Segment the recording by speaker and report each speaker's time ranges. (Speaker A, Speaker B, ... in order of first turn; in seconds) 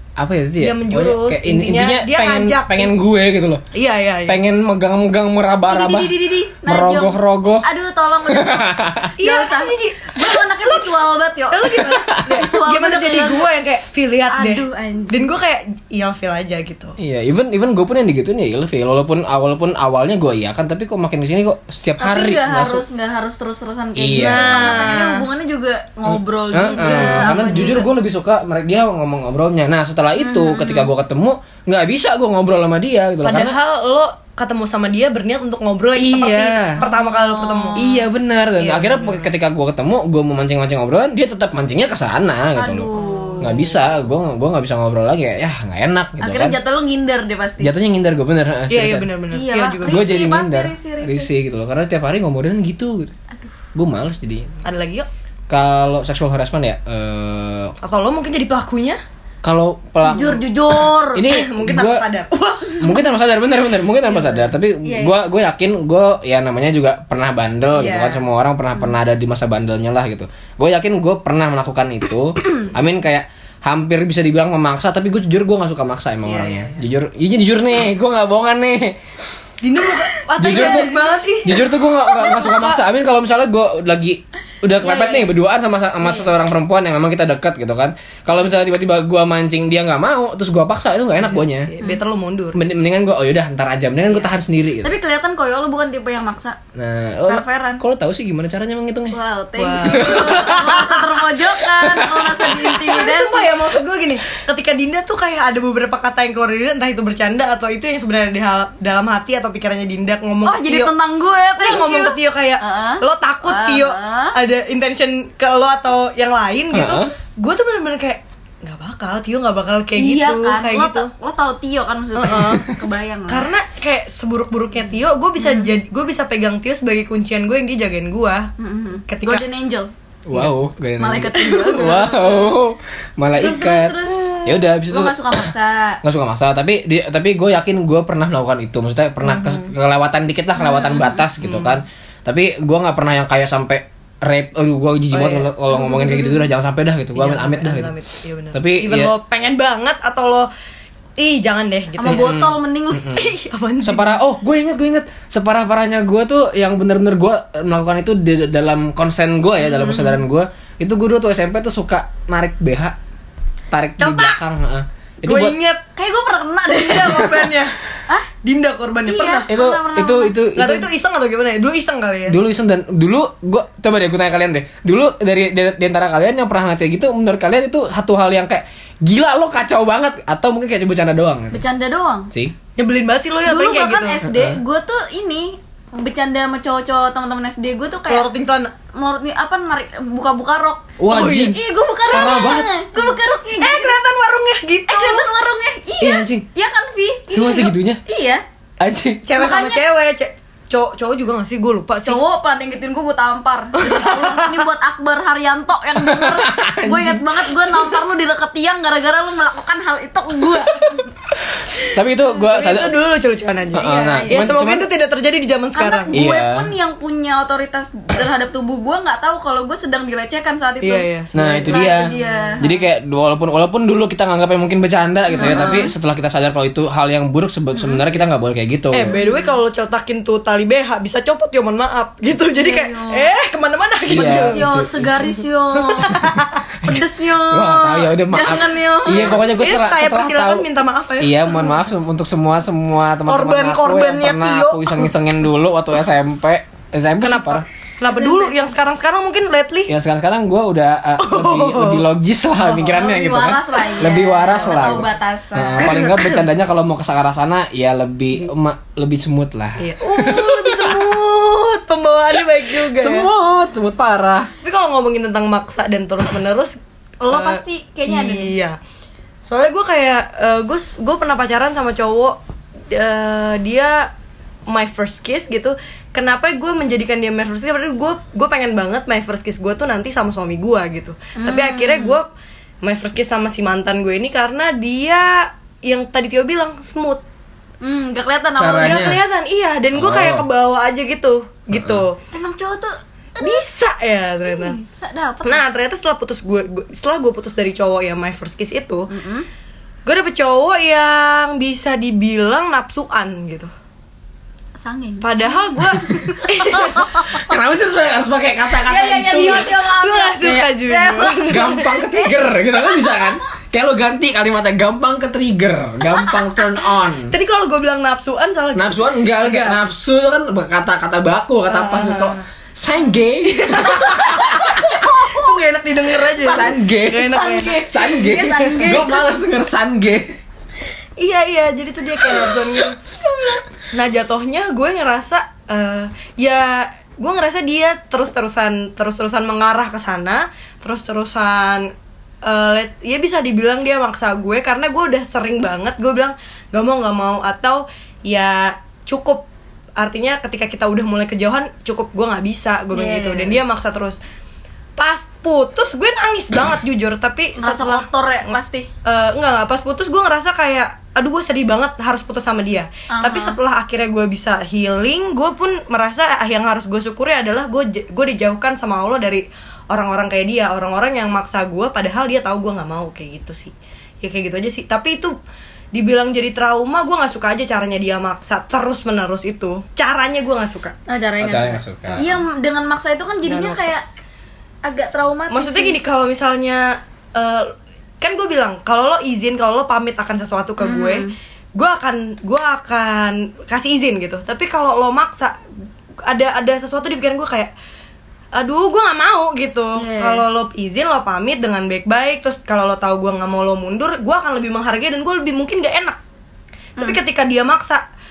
Speaker A: 0.2-3.6, 4.3-6.1, 6.6-7.7, 8.3-9.1, 11.9-12.3, 17.0-22.8, 23.9-25.0, 26.1-33.6, 36.0-36.8, 37.8-42.9, 43.4-46.6, 47.6-49.1, 49.8-53.1, 53.7-54.5, 55.5-57.7, 59.4-60.4, 61.1-62.0, 62.8-79.0, 80.4-80.9, 81.4-91.7, 92.5-94.9, 96.8-99.2, 99.9-100.6, 101.8-102.8, 116.7-117.1, 130.3-135.5, 136.0-147.9, 148.5-149.1, 152.0-162.9, 163.7-165.6, 169.5-170.9, 172.3-181.6, 184.2-184.6, 191.0-191.6, 192.1-192.7, 196.0-196.4, 197.3-198.0, 198.8-199.2, 205.9-207.9, 211.4-212.9, 213.7-214.9, 216.1-216.7, 221.3-229.2, 234.1-235.1, 236.8-240.7, 241.2-247.6, 249.9-261.1, 262.6-264.5, 288.6-289.2, 289.9-290.4, 291.7-292.0, 307.3-309.7, 311.5-317.3, 318.7-325.0, 326.4-330.4, 381.4-382.3
Speaker B: 0.6-2.9, 3.7-4.4, 9.2-10.9, 11.5-16.9, 24.1-25.2, 26.8-27.8, 33.2-37.9, 38.6-39.3, 43.0-43.7, 48.7-50.0, 54.6-55.1, 57.8-59.0, 61.2-62.9, 64.1-64.5, 67.7-68.2, 76.2-76.8, 79.6-82.8, 91.2-92.6, 99.6-101.1, 102.8-110.9, 111.6-121.1, 122.2-122.8, 123.3-128.5, 129.1-129.4, 134.2-134.4, 139.3-139.7, 141.4-141.8, 145.1-146.4, 147.2-150.5, 151.2-152.3, 153.1-154.2, 159.6-160.2, 164.0-164.4, 165.2-165.8, 166.7-167.7, 168.4-169.5, 170.6-172.4, 182.8-184.2, 188.1-188.7, 191.1-191.5, 193.6-195.3, 199.2-202.2, 203.8-204.6, 212.4-216.2, 220.8-222.7, 225.4-225.8, 228.9-234.6, 235.9-236.6, 239.1-241.7, 243.2-245.1, 247.2-249.9, 251.2-252.0, 255.8-256.4, 259.8-263.3, 264.6-266.8, 267.3-268.8, 269.4-272.4, 272.9-274.1, 274.7-282.2, 282.8-287.2, 288.8-292.2, 293.4-294.8, 295.4-299.1, 300.1-303.7, 305.2-307.4, 309.3-311.9, 317.3-319.8, 321.7-322.4, 323.5-327.8, 331.2-333.0, 333.9-341.9, 342.4-349.4, 350.0-354.2, 355.0-358.5, 359.0-375.3, 375.9-381.0, 383.4-383.9, 385.5-395.6, 396.2-397.7, 398.5-406.2, 407.0-408.0
Speaker C: 5.7-13.4, 14.3-15.3, 22.0-27.9, 30.2-30.9, 36.8-38.0, 42.5-43.6, 46.2-47.7, 49.3-51.3, 60.0-61.2, 64.8-65.2, 80.1-81.1, 84.8-85.3, 86.0-86.3, 94.8-96.6, 97.2-97.8, 99.1-103.5, 110.4-114.4, 120.0-123.5, 125.4-125.7, 128.6-129.9, 131.0-132.5, 133.3-134.4, 134.9-136.0, 140.6-141.2, 152.0-153.2, 165.9-167.5, 169.1-170.3, 181.5-182.3, 183.4-188.3, 188.9-194.0, 194.9-198.4, 199.3-199.8, 202.0-211.1, 213.8-214.4, 215.7-221.1, 221.7-222.6, 225.3-225.9, 227.7-228.0, 229.1-229.5, 232.5-233.3, 234.1-236.2, 236.8-239.4, 248.1-248.6, 252.8-255.9, 267.2-268.5, 281.4-282.2, 287.8-289.1, 292.3-293.6, 294.4-295.6, 299.1-299.5, 304.8-307.4, 308.8-313.3, 324.4-325.6, 326.3-329.3, 333.2-333.6, 352.9-353.6, 357.6-358.9, 363.1-363.6, 381.1-384.0, 384.8-386.0, 390.8-391.3, 399.9-400.4